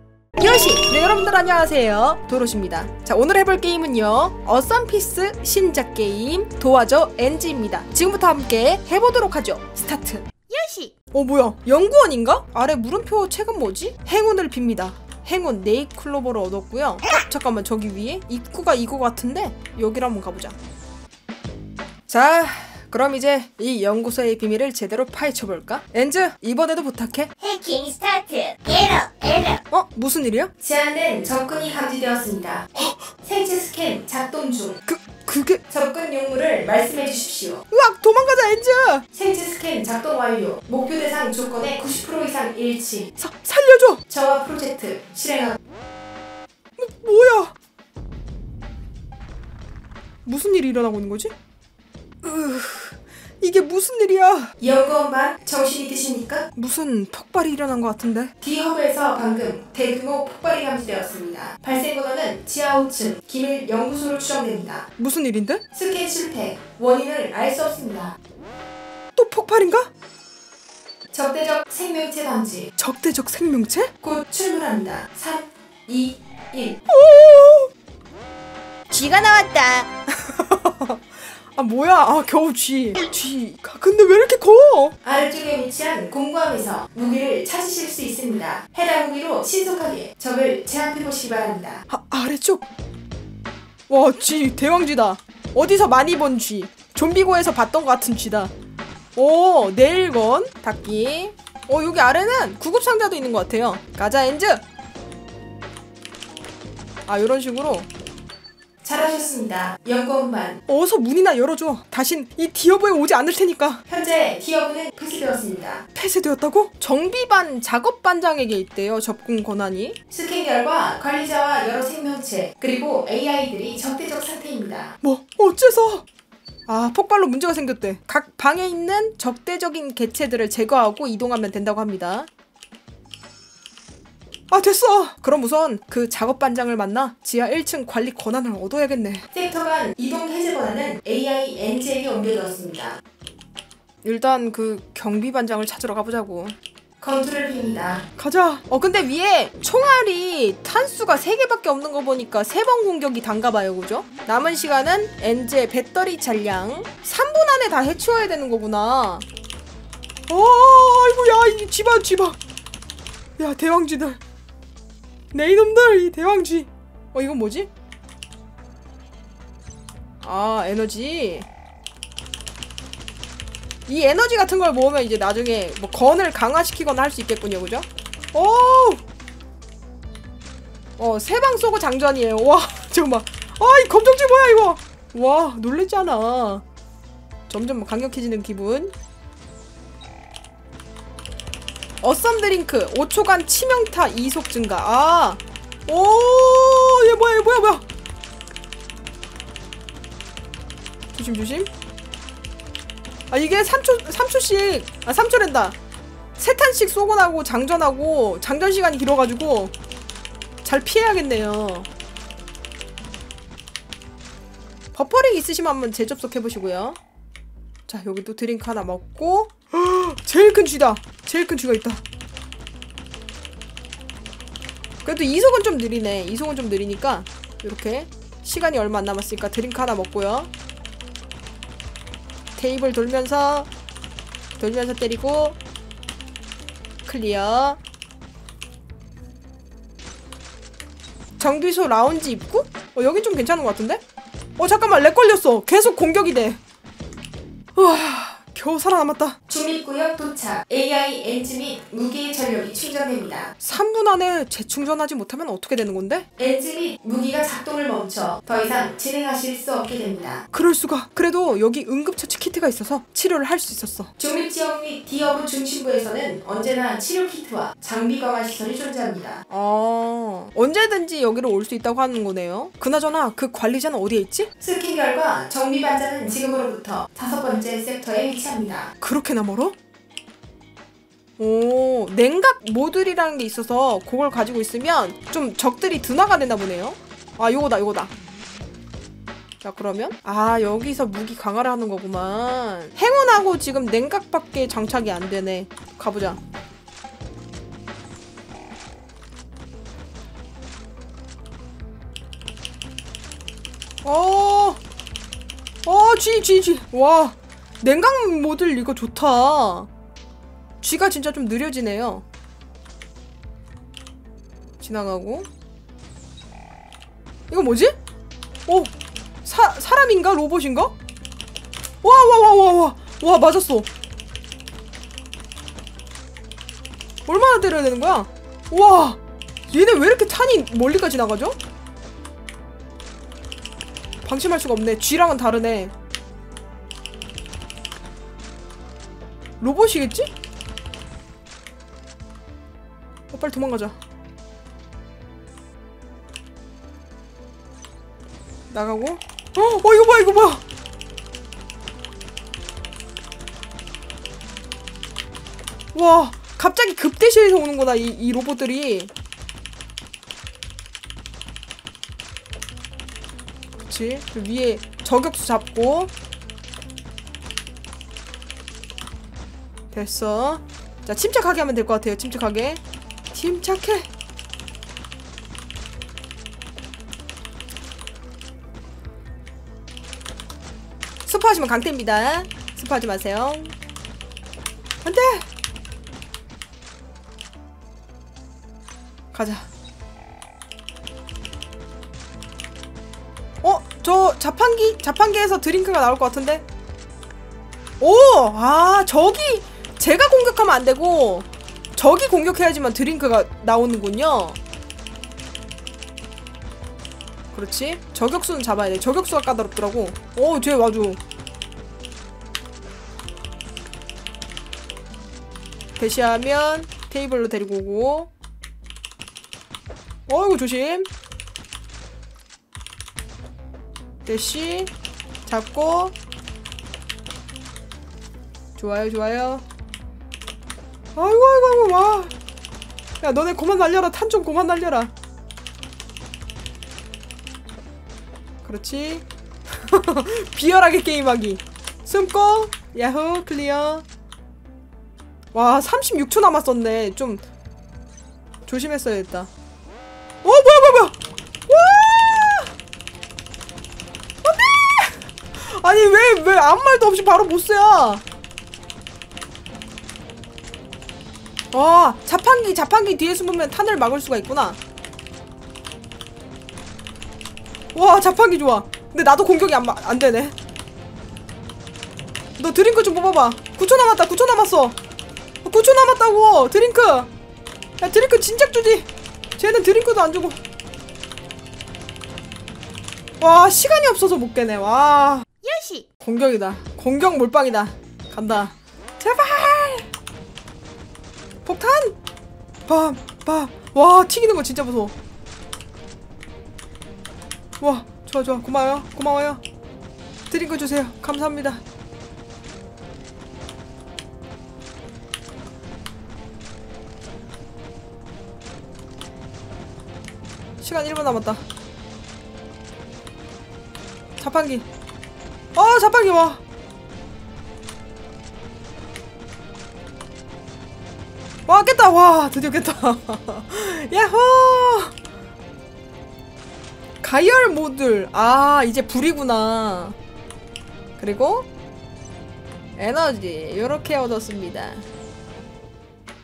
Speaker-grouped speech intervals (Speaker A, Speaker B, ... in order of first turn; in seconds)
Speaker A: 0.4-10.3, 11.1-20.6, 22.1-27.3, 29.7-30.5, 32.8-33.1, 34.9-35.6, 37.7-39.1, 43.2-44.0, 46.8-47.5, 50.2-51.3, 52.2-54.5, 56.6-58.3, 65.0-65.6, 69.2-69.9, 72.8-73.9, 76.9-77.7, 80.1-85.0, 91.9-92.7, 93.9-98.5, 99.2-104.6, 107.1-107.9, 110.7-113.8, 116.0-120.0, 125.0-126.0, 126.7-132.3, 134.5-139.3, 144.0-146.6, 148.2-159.3, 160.3-162.4, 163.4-164.2, 165.3-167.7, 170.2-171.5, 173.9-179.0, 181.0-186.7, 187.5-188.9, 192.0-197.8, 201.1-201.7, 203.3-205.8, 206.4-209.7, 210.6-211.9, 214.9-217.0, 217.9-222.0, 225.0-230.5, 232.6-233.7, 234.6-235.6, 237.1-237.8, 241.4-244.0, 244.6-246.6, 247.8-249.4, 253.6-256.3, 260.5-264.1, 269.5-274.5, 279.0-279.8, 281.4-288.1, 289.6-296.4, 304.0-304.8, 305.9-309.9, 310.8-312.2, 314.8-315.5, 317.5-318.0, 318.7-318.9, 319.4-320.9, 322.0-323.9, 327.3-329.2, 329.7-331.6, 334.2-335.9, 339.6-340.3, 343.3-344.0, 348.7-350.6, 355.9-359.1, 363.9-366.1, 369.9-372.8, 373.3-374.1, 381.3-383.7, 385.0-385.5, 389.3-389.7, 393.6-396.7, 398.0-404.6, 407.5-411.2, 416.0-418.3, 420.3-421.1, 424.3-424.9, 425.5-426.2, 428.8-429.6, 431.1-432.3, 433.2-435.1, 438.6-444.1, 445.5-447.4, 448.6-449.5, 450.4-452.7, 454.4-458.2, 461.7-464.8, 467.9-470.6, 472.6-475.0, 475.6-477.3, 478.0-480.6, 483.4-485.5, 486.2-490.1, 491.6-492.2, 492.9-495.1, 497.8-499.6, 500.5-501.8, 510.8-511.6, 514.4-514.9, 515.8-516.6, 521.7-525.1, 527.2-530.2, 531.2-531.7, 533.0-535.1
Speaker B: 10.5-10.9, 27.4-29.6, 78.9-79.9, 485.6-486.1
Speaker C: 30.6-32.7, 33.2-34.8, 35.7-37.6, 39.1-43.1, 44.1-45.6, 54.6-56.5, 58.4-64.9, 65.7-68.2, 71.1-72.7, 74.0-76.8, 85.0-91.8, 108.8-110.6, 113.9-115.9, 120.1-125.0, 139.3-143.0, 147.0-148.0, 249.5-253.5, 256.4-260.4, 264.2-269.4, 274.6-278.9